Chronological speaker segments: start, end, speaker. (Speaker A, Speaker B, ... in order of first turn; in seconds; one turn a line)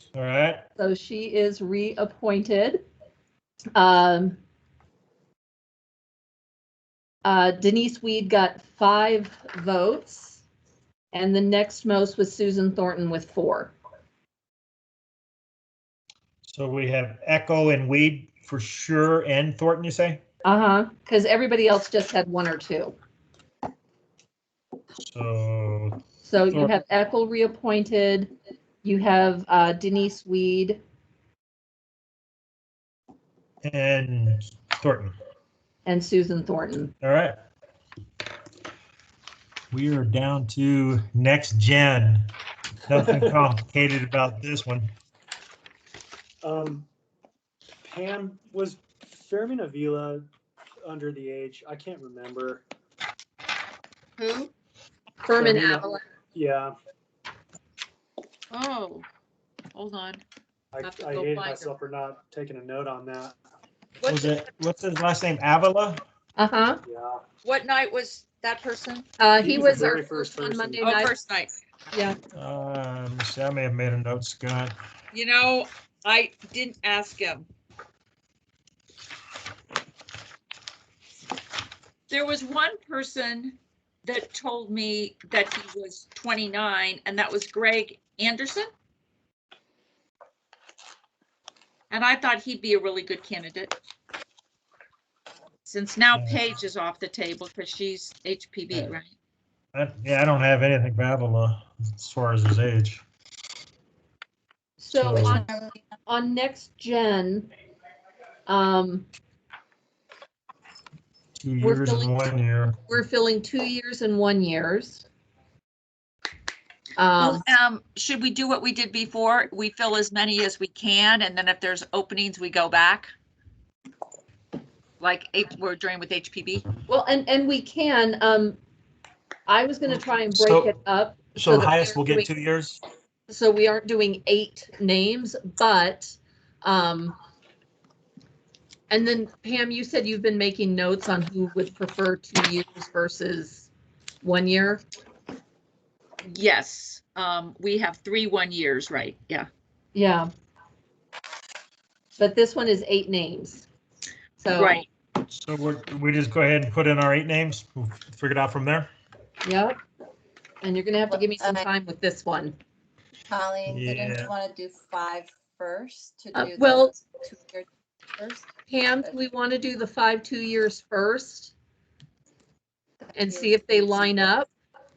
Speaker A: 0.1-0.6
Speaker B: 0.8-2.8
Speaker B: 3.8-4.4
Speaker B: 7.2-10.4
Speaker B: 11.1-13.7
Speaker A: 16.4-20.2
Speaker B: 20.4-22.9
Speaker A: 25.0-26.0
Speaker B: 26.2-28.3
Speaker A: 26.5-26.8
Speaker B: 28.8-30.8
Speaker A: 33.6-35.1
Speaker B: 35.9-36.9
Speaker A: 37.0-37.4
Speaker A: 39.7-42.3
Speaker A: 42.9-44.9
Speaker C: 46.4-46.9
Speaker C: 47.8-50.3
Speaker C: 50.8-52.6
Speaker D: 54.2-54.5
Speaker B: 55.2-56.0
Speaker C: 55.4-56.8
Speaker D: 58.5-59.1
Speaker D: 59.7-60.2
Speaker C: 60.7-63.4
Speaker D: 60.8-61.7
Speaker D: 64.0-64.4
Speaker A: 64.0-66.0
Speaker B: 66.4-66.8
Speaker C: 66.8-67.2
Speaker D: 67.4-69.1
Speaker B: 69.2-71.1
Speaker C: 69.4-70.9
Speaker D: 70.8-71.5
Speaker A: 72.3-74.8
Speaker D: 75.1-77.5
Speaker D: 82.1-88.7
Speaker D: 91.9-93.8
Speaker D: 95.7-99.1
Speaker A: 96.1-96.4
Speaker A: 99.7-103.0
Speaker B: 104.8-105.5
Speaker A: 105.0-105.4
Speaker E: 105.3-105.8
Speaker B: 106.1-107.5
Speaker B: 108.5-109.1
Speaker A: 111.4-112.8
Speaker B: 111.6-112.1
Speaker B: 112.9-115.0
Speaker B: 117.0-117.4
Speaker D: 117.2-123.1
Speaker D: 125.0-126.7
Speaker B: 126.9-128.6
Speaker B: 129.5-132.3
Speaker A: 129.9-130.8
Speaker A: 131.4-132.8
Speaker B: 133.3-137.2
Speaker B: 138.9-143.7
Speaker B: 144.2-144.8
Speaker D: 146.3-149.5
Speaker B: 149.9-150.3
Speaker B: 152.2-153.7
Speaker B: 154.4-154.8
Speaker D: 154.5-154.9
Speaker A: 155.2-158.9
Speaker B: 159.4-159.8
Speaker B: 160.6-162.6
Speaker E: 161.1-161.7
Speaker E: 163.3-169.2
Speaker A: 163.7-164.3
Speaker B: 166.3-166.9
Speaker B: 168.7-171.5
Speaker E: 173.1-174.3
Speaker B: 173.2-174.5